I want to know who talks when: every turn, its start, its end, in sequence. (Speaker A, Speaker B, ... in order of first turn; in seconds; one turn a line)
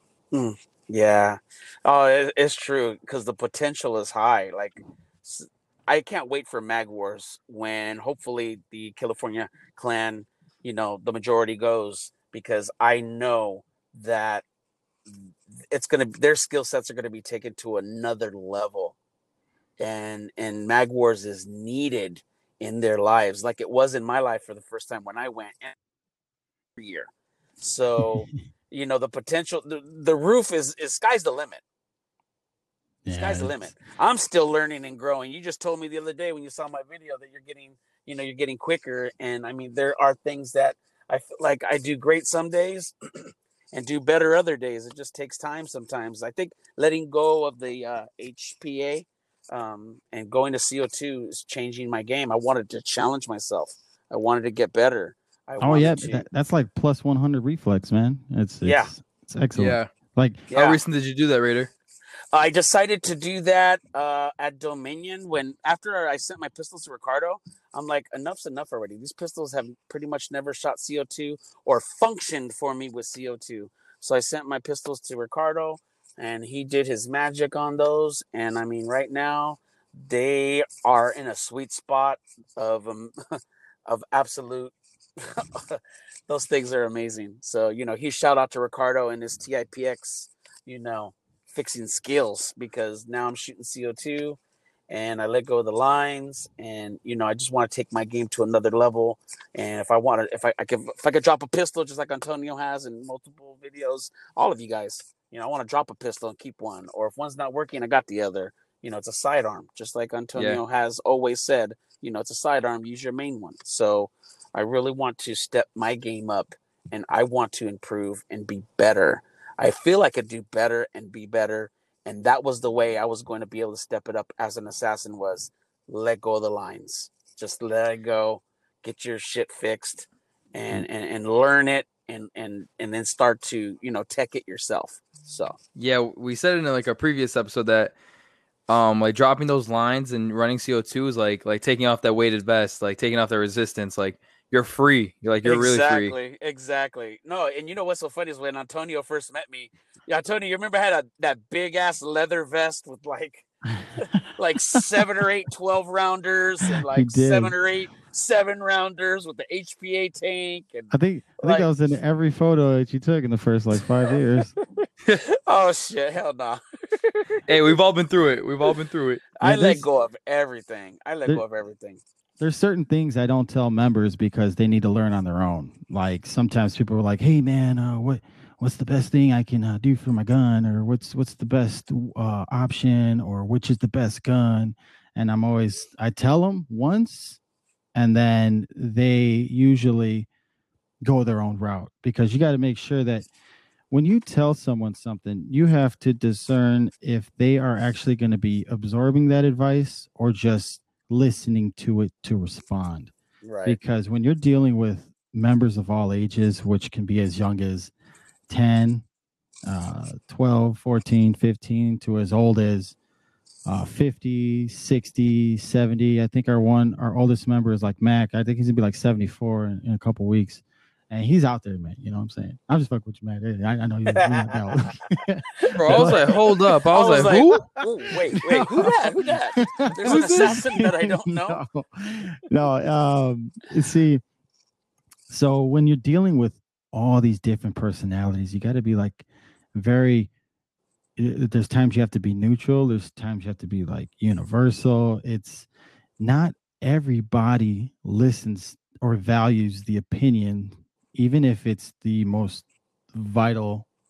Speaker A: 0.3-14.4
Speaker A: 15.1-18.9
Speaker A: 19.8-25.7
Speaker A: 26.8-31.6
Speaker B: 33.0-33.5
Speaker A: 33.2-42.9
Speaker A: 43.7-56.2
Speaker B: 55.6-60.5
Speaker A: 58.6-58.9
Speaker C: 59.5-59.9
Speaker A: 60.5-60.8
Speaker C: 60.5-61.7
Speaker A: 62.3-83.1
Speaker A: 83.8-135.6
Speaker C: 110.3-110.6
Speaker C: 135.8-137.9
Speaker C: 138.7-146.2
Speaker A: 145.4-153.4
Speaker A: 154.0-161.7
Speaker B: 156.9-157.5
Speaker B: 160.9-164.5
Speaker A: 165.3-167.4
Speaker C: 167.5-169.3
Speaker A: 169.3-172.0
Speaker B: 169.4-169.8
Speaker B: 172.4-187.4
Speaker B: 187.9-190.3
Speaker B: 191.0-193.3
Speaker B: 193.9-203.1
Speaker A: 203.4-203.8
Speaker B: 203.7-207.9
Speaker B: 208.5-209.0
Speaker B: 209.7-212.9
Speaker B: 213.7-226.3
Speaker A: 224.2-224.7
Speaker A: 225.6-226.4
Speaker C: 225.7-227.7
Speaker A: 226.9-231.6
Speaker B: 228.3-234.2
Speaker C: 230.0-230.6
Speaker B: 235.3-240.3
Speaker B: 241.2-245.7
Speaker B: 246.2-253.9